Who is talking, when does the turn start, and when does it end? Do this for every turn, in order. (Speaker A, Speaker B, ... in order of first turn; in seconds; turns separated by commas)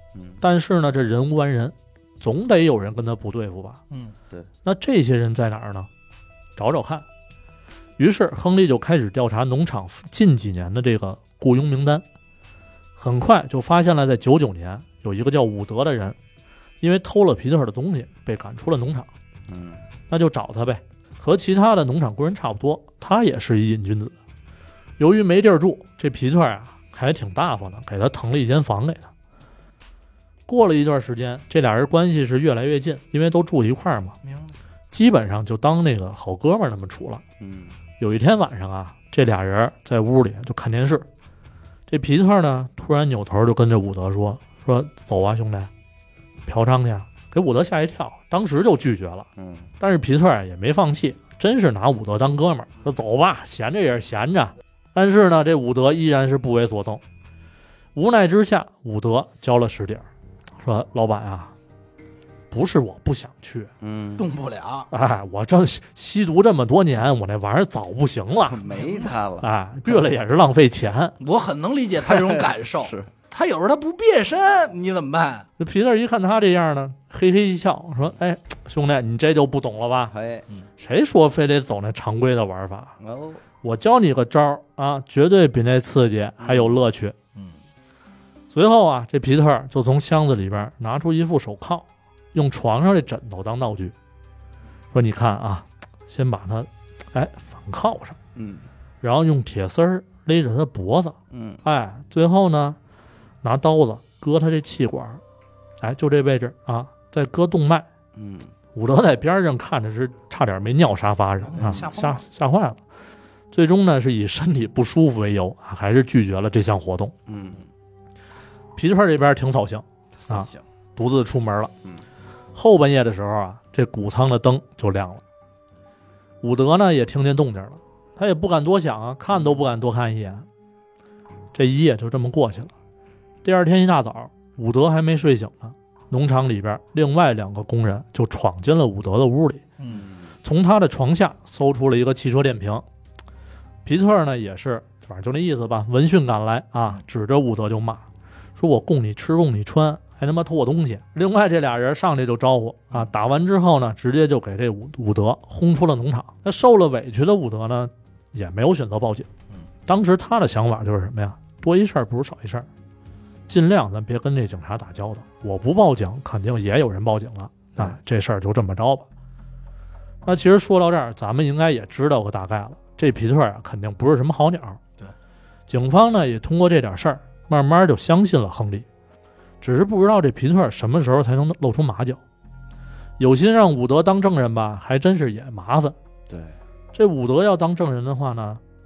Speaker A: 0.1-0.4, Speaker B: 0.4-3.8, Speaker B: 4.6-5.9, Speaker B: 6.6-7.0, Speaker B: 8.0-12.0, Speaker B: 13.0-16.2, Speaker B: 16.8-19.1, Speaker A: 19.5-19.8, Speaker B: 20.1-24.1, Speaker B: 25.0-29.1, Speaker B: 30.5-34.1, Speaker C: 34.2-34.5, Speaker B: 34.9-37.2, Speaker A: 37.4-37.8, Speaker B: 38.0-41.1, Speaker B: 41.9-45.7, Speaker B: 46.5-49.3, Speaker A: 49.4-49.7, Speaker B: 49.8-57.0, Speaker B: 58.0-60.1, Speaker B: 60.6-61.5, Speaker B: 62.5-63.7, Speaker A: 63.8-64.3, Speaker C: 64.2-64.9, Speaker B: 64.9-68.6, Speaker A: 68.5-69.5, Speaker C: 68.7-69.1, Speaker B: 69.4-71.2, Speaker C: 71.2-75.5, Speaker A: 72.0-73.1, Speaker B: 75.6-80.1, Speaker A: 80.1-80.5, Speaker B: 80.8-83.0, Speaker A: 83.0-83.4, Speaker B: 83.6-87.1, Speaker A: 86.4-86.8, Speaker B: 88.5-93.9, Speaker B: 94.9-98.2, Speaker A: 98.3-98.7, Speaker B: 99.0-102.8, Speaker A: 101.3-101.6, Speaker B: 103.4-105.2, Speaker B: 105.8-107.9, Speaker A: 108.1-108.5, Speaker B: 108.7-112.8, Speaker C: 111.5-112.2, Speaker A: 111.6-111.9, Speaker B: 113.5-117.1, Speaker A: 117.3-117.7, Speaker B: 118.8-121.7, Speaker A: 120.2-120.6, Speaker B: 122.5-125.2, Speaker B: 126.4-130.5, Speaker B: 131.5-132.7, Speaker B: 133.4-139.7, Speaker C: 139.8-140.1, Speaker A: 139.9-140.3, Speaker B: 140.4-142.8, Speaker B: 143.8-148.0, Speaker B: 148.6-159.3, Speaker B: 159.9-162.7, Speaker B: 163.5-169.1, Speaker B: 170.2-174.8, Speaker B: 175.7-178.9, Speaker B: 179.6-182.2, Speaker B: 183.2-186.0, Speaker A: 186.3-186.6, Speaker B: 186.9-188.6